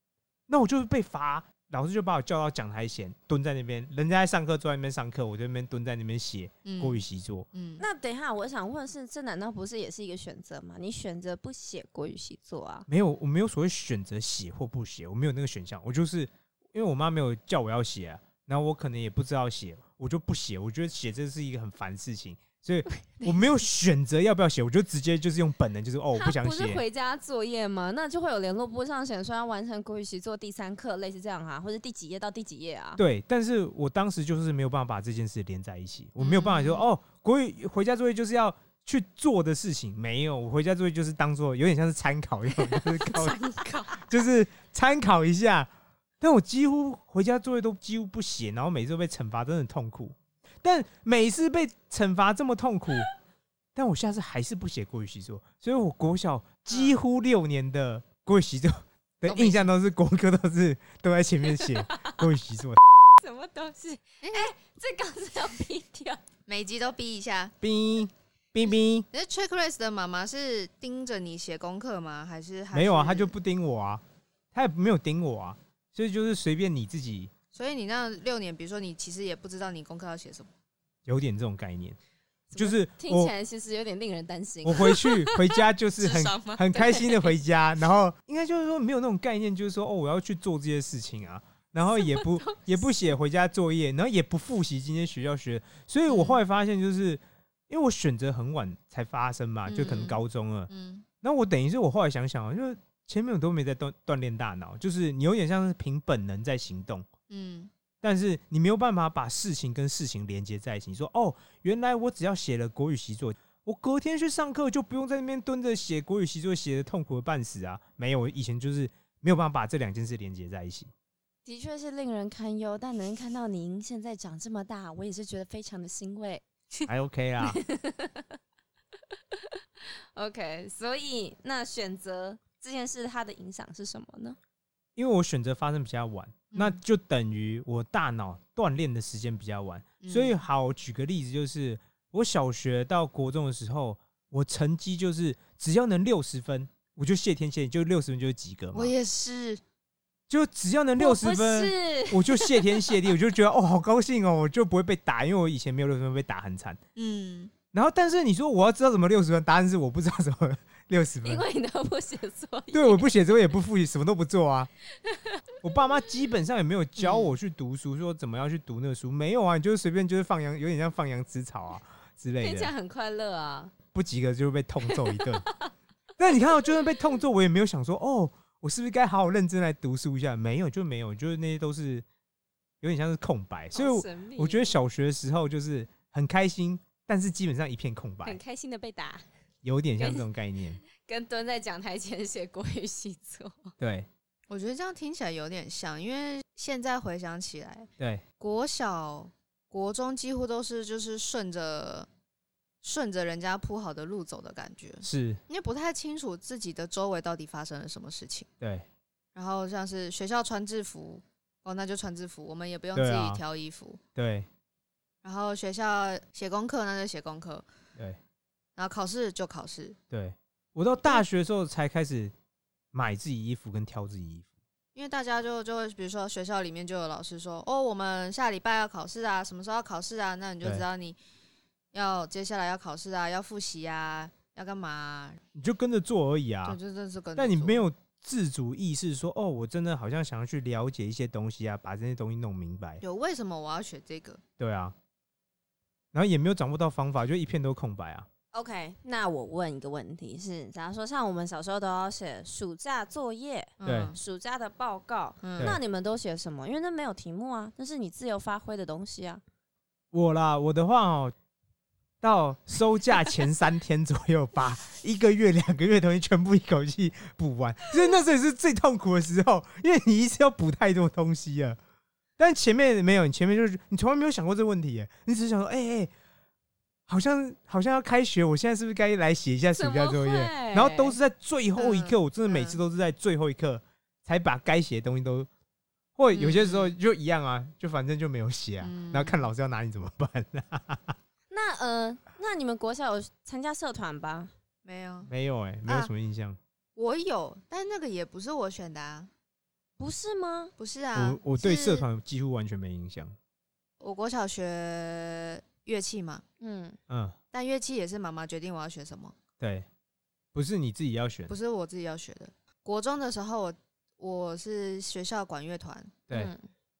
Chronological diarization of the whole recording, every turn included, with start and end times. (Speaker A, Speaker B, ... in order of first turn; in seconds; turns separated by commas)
Speaker A: 0.5-7.5, Speaker B: 6.6-7.8, Speaker C: 7.8-12.9, Speaker A: 12.9-26.8, Speaker C: 22.9-23.4, Speaker C: 26.1-33.0, Speaker A: 33.0-43.4, Speaker B: 36.2-36.8, Speaker B: 43.1-44.0, Speaker A: 43.9-53.1, Speaker A: 53.7-62.8, Speaker B: 56.7-57.0, Speaker B: 59.2-59.7, Speaker C: 61.7-62.2, Speaker C: 63.2-66.2, Speaker B: 64.2-64.5, Speaker B: 66.5-67.5, Speaker A: 67.6-69.0, Speaker B: 69.1-73.3, Speaker A: 72.7-74.0, Speaker A: 74.5-77.3, Speaker B: 77.5-80.5, Speaker A: 81.1-82.0, Speaker C: 82.5-85.0, Speaker A: 82.5-83.3, Speaker A: 84.6-107.0, Speaker B: 85.0-86.6, Speaker C: 86.7-87.2, Speaker B: 96.1-96.4, Speaker B: 99.7-101.0, Speaker B: 107.3-107.7, Speaker A: 108.0-120.9, Speaker C: 121.5-126.4, Speaker A: 126.9-127.6, Speaker C: 127.6-128.3, Speaker C: 129.3-134.4, Speaker A: 134.9-148.9, Speaker B: 136.5-136.8, Speaker B: 140.0-140.4, Speaker B: 148.7-149.6, Speaker A: 150.3-156.8, Speaker C: 151.0-153.1, Speaker B: 156.9-157.5, Speaker A: 157.7-161.4, Speaker C: 161.2-163.2, Speaker A: 162.7-164.7, Speaker C: 165.0-165.4, Speaker A: 165.6-172.7, Speaker B: 167.0-167.3, Speaker C: 172.4-173.7, Speaker A: 173.9-175.4, Speaker C: 174.8-175.7, Speaker A: 176.2-182.0, Speaker A: 182.8-188.4, Speaker C: 183.7-184.8, Speaker C: 188.2-189.2, Speaker A: 189.6-190.8, Speaker C: 190.0-190.2, Speaker C: 190.9-193.7, Speaker A: 193.8-194.1, Speaker B: 194.5-197.9, Speaker B: 198.4-202.1, Speaker B: 202.8-208.5, Speaker A: 205.0-205.4, Speaker A: 208.6-208.8, Speaker B: 209.3-214.0, Speaker A: 212.9-213.4, Speaker A: 214.1-214.5, Speaker B: 215.2-217.6, Speaker B: 218.8-220.0, Speaker A: 220.1-222.3, Speaker A: 222.9-224.5, Speaker B: 224.9-231.2, Speaker B: 231.9-235.4, Speaker A: 235.5-236.8, Speaker B: 236.6-237.8, Speaker A: 237.4-243.0, Speaker B: 243.0-244.4, Speaker A: 244.6-244.9, Speaker A: 246.1-248.3, Speaker C: 248.5-259.4, Speaker B: 253.8-254.2, Speaker A: 253.8-254.1, Speaker B: 255.4-255.8, Speaker A: 260.1-261.3, Speaker A: 262.2-271.8, Speaker A: 272.4-276.1, Speaker A: 277.1-285.5, Speaker C: 279.8-281.2, Speaker B: 281.8-282.8, Speaker A: 286.1-291.1, Speaker B: 286.3-286.9, Speaker B: 288.8-289.4, Speaker C: 291.5-294.5, Speaker B: 294.8-295.3, Speaker A: 295.3-296.6, Speaker B: 296.9-299.3, Speaker C: 300.0-300.7, Speaker B: 300.8-302.0, Speaker A: 301.1-303.4, Speaker B: 304.0-306.4, Speaker C: 306.6-307.0, Speaker A: 307.1-307.4, Speaker B: 307.5-309.4, Speaker A: 309.6-309.9, Speaker A: 310.5-311.5, Speaker B: 311.5-316.2, Speaker C: 316.3-316.7